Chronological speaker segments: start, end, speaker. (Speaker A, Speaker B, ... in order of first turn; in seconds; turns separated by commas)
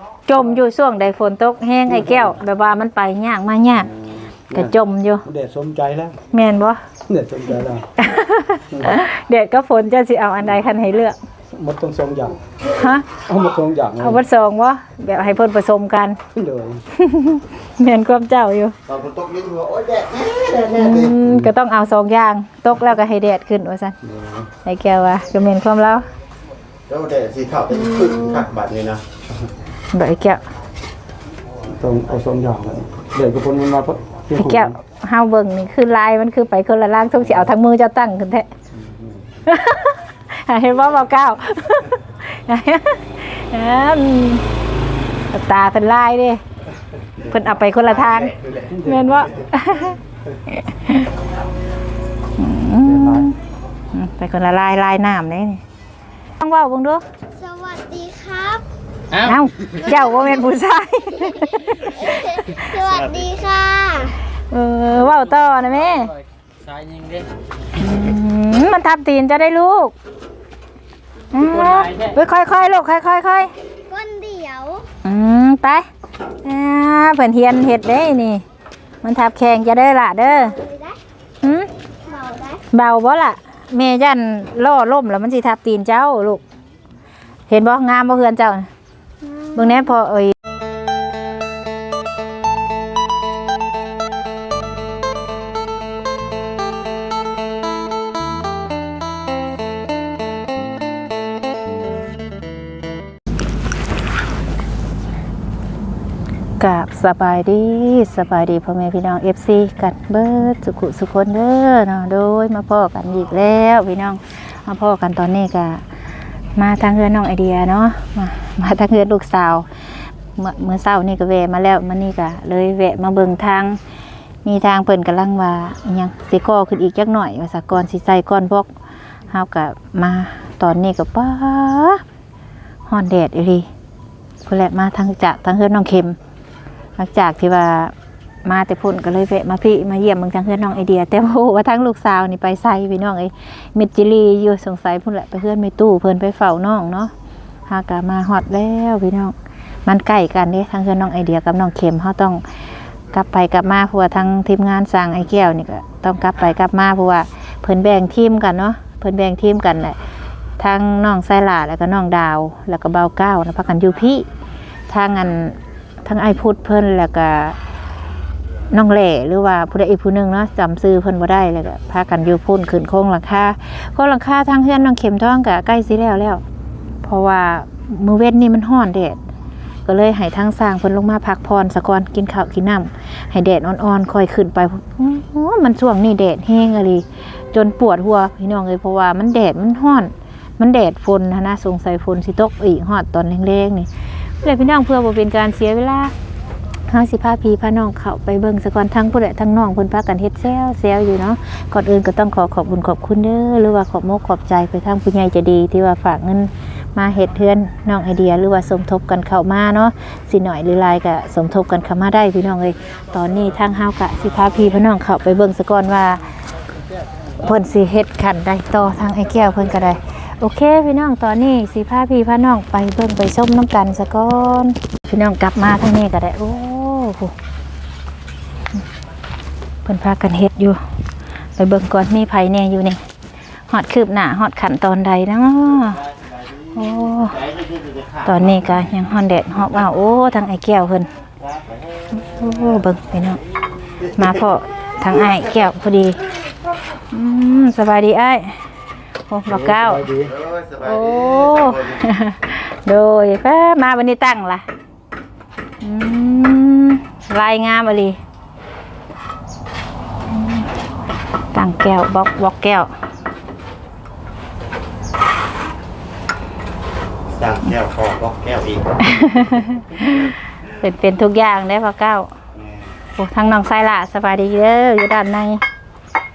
Speaker A: 0.3-3.9, Speaker B: 1.9-2.3, Speaker B: 4.0-6.2, Speaker A: 4.5-5.2, Speaker A: 6.3-6.8, Speaker B: 7.1-7.8, Speaker A: 8.0-11.2, Speaker B: 11.5-12.4, Speaker A: 12.7-13.1, Speaker B: 13.2-14.2, Speaker A: 14.0-16.2, Speaker B: 16.3-16.8, Speaker A: 16.9-18.7, Speaker C: 18.9-21.2, Speaker A: 20.8-23.9, Speaker B: 24.0-24.5, Speaker A: 24.6-26.1, Speaker C: 26.9-29.0, Speaker A: 27.7-28.4, Speaker A: 29.9-30.4, Speaker B: 31.8-34.8, Speaker A: 34.3-38.5, Speaker B: 38.7-39.2, Speaker A: 39.5-44.4, Speaker A: 45.3-46.4, Speaker A: 47.3-48.3, Speaker C: 47.7-48.8, Speaker B: 48.7-49.3, Speaker A: 48.8-50.0, Speaker A: 50.6-51.1, Speaker A: 52.4-53.4, Speaker B: 52.8-53.3, Speaker A: 53.9-55.6, Speaker A: 56.4-57.0, Speaker D: 57.3-58.6, Speaker E: 59.1-59.8, Speaker A: 59.2-62.6, Speaker D: 59.8-60.5, Speaker D: 61.2-64.2, Speaker A: 64.5-66.1, Speaker E: 65.0-67.3, Speaker A: 67.8-69.9, Speaker A: 71.3-73.5, Speaker E: 71.3-72.2, Speaker D: 73.9-74.8, Speaker A: 75.0-75.8, Speaker A: 76.4-78.4, Speaker A: 79.0-80.5, Speaker D: 80.2-81.0, Speaker A: 81.4-81.7, Speaker D: 82.0-82.6, Speaker A: 82.7-86.4, Speaker A: 87.5-88.7, Speaker D: 89.2-89.9, Speaker A: 89.5-90.3, Speaker A: 106.6-115.8, Speaker A: 116.5-119.7, Speaker A: 120.3-123.8, Speaker A: 124.4-128.7, Speaker A: 129.3-132.0, Speaker A: 132.9-133.7, Speaker A: 134.4-136.2, Speaker A: 137.0-137.9, Speaker A: 138.4-147.1, Speaker A: 147.7-149.3, Speaker A: 149.8-152.4, Speaker A: 153.1-160.0, Speaker A: 160.6-164.2, Speaker A: 164.9-167.6, Speaker A: 168.7-176.4, Speaker A: 177.0-179.2, Speaker A: 179.8-193.9, Speaker A: 194.4-196.1, Speaker A: 196.9-216.2, Speaker A: 217.4-227.3, Speaker A: 229.8-230.8, Speaker A: 231.6-233.0, Speaker A: 233.7-236.0, Speaker C: 235.9-238.8, Speaker A: 236.7-237.3, Speaker A: 238.2-241.1, Speaker C: 241.4-242.2, Speaker A: 242.1-243.4, Speaker C: 244.0-244.3, Speaker A: 244.2-246.2, Speaker A: 247.1-248.6, Speaker A: 249.3-250.0, Speaker B: 249.5-250.3, Speaker C: 250.1-252.1, Speaker A: 250.8-254.6, Speaker A: 255.8-258.2, Speaker A: 260.3-260.7, Speaker A: 261.5-262.9, Speaker C: 267.3-269.2, Speaker A: 269.0-272.3, Speaker C: 272.5-272.9, Speaker A: 273.1-275.6